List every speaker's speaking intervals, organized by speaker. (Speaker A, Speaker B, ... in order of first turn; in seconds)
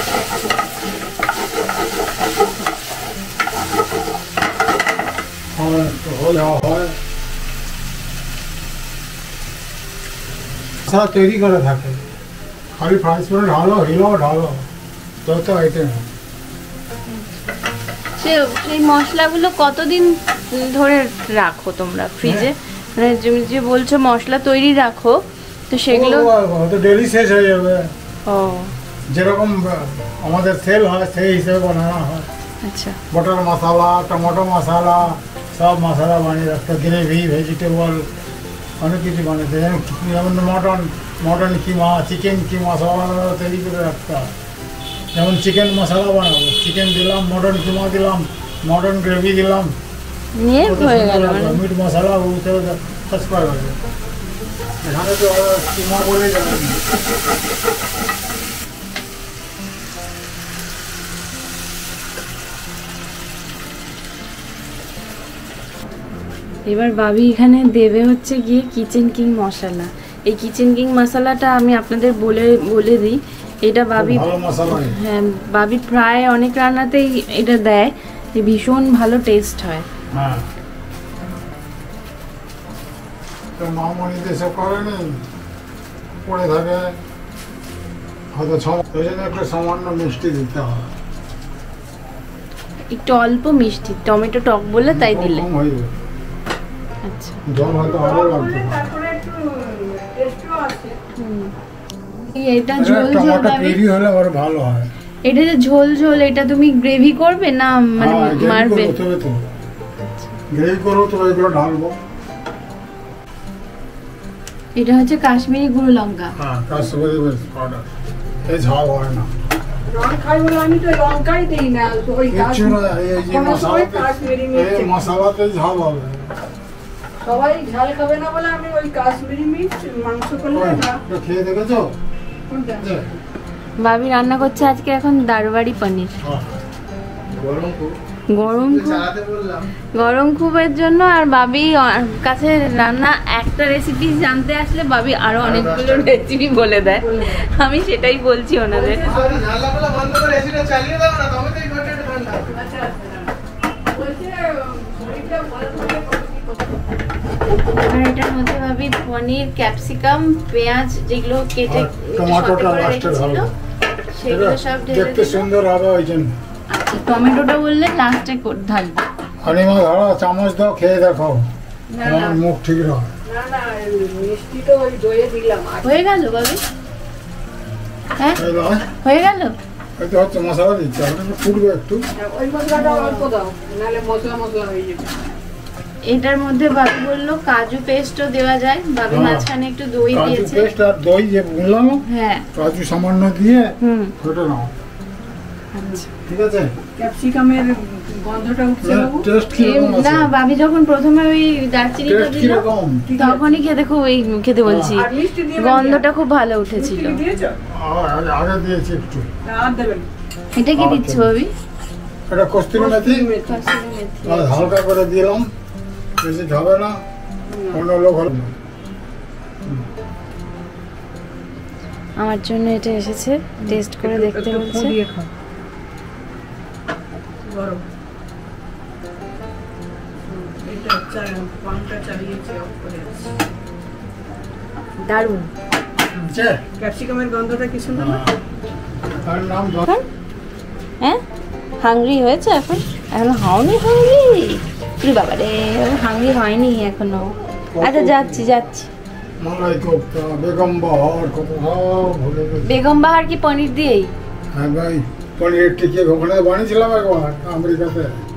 Speaker A: 5.5-7.0, 10.8-12.0, 12.8-14.7, 15.2-16.0, 22.2-22.5, 25.9-27.9, 29.1-32.3, 33.1-38.1, 38.8-44.3, 45.1-49.7, 50.6-53.8, 54.8-56.8, 74.0-75.0, 80.1-80.5, 83.6-85.2, 86.2-87.0, 88.3-90.9, 94.9-95.9, 97.5-98.9, 102.8-104.9, 108.0-109.4, 110.5-112.0, 116.4-117.8, 118.5-119.3, 122.3-126.3, 130.5-131.9, 132.8-133.1, 136.2-136.5, 137.3-137.9, 139.0-139.5, 145.4-146.1, 149.3-152.3, 161.7-163.5, 164.3-166.3, 169.4-171.5, 172.0-173.1, 178.3-178.9, 180.0-182.1, 189.1-189.5, 190.1-192.0, 192.5-194.7, 196.3-196.7, 198.8-200.3, 202.0-203.1, 204.7-205.0, 207.7-209.3, 210.8-211.3, 212.3-213.3, 214.2-215.5, 216.2-217.0, 217.7-218.5, 236.1-236.6, 237.9-238.3, 239.2-239.9, 247.7-248.7, 249.4-252.7, 254.5-258.1
Speaker B: 18.2-26.3, 28.3-28.7, 32.6-33.0, 50.4-51.6, 66.7-79.8, 92.9-95.4, 97.1-97.4, 101.2-101.5, 102.3-103.8, 105.2-109.0, 114.8-116.3, 133.8-136.1, 138.3-139.1, 139.9-149.1, 157.6-163.5, 164.1-165.4, 166.7-169.0, 175.8-176.6, 179.0-179.6, 182.8-183.2, 186.1-190.7, 192.1-192.5, 193.8-194.1, 195.7-196.1, 199.5-207.2, 210.6-211.5, 213.4-214.7, 222.2-224.9, 235.0-235.5, 241.8-248.9, 252.7-254.1
Speaker C: 97.8-101.0, 119.9-125.0, 127.2-131.0, 132.5-133.0, 148.8-149.3, 152.3-153.3, 153.9-156.7, 173.2-175.9, 182.2-185.3, 197.0-199.2, 203.1-203.4, 204.9-206.1, 206.7-207.6, 209.4-210.1, 212.8-213.8, 217.5-217.8, 223.6-225.3, 227.4-227.8, 230.3-233.3, 236.8-238.3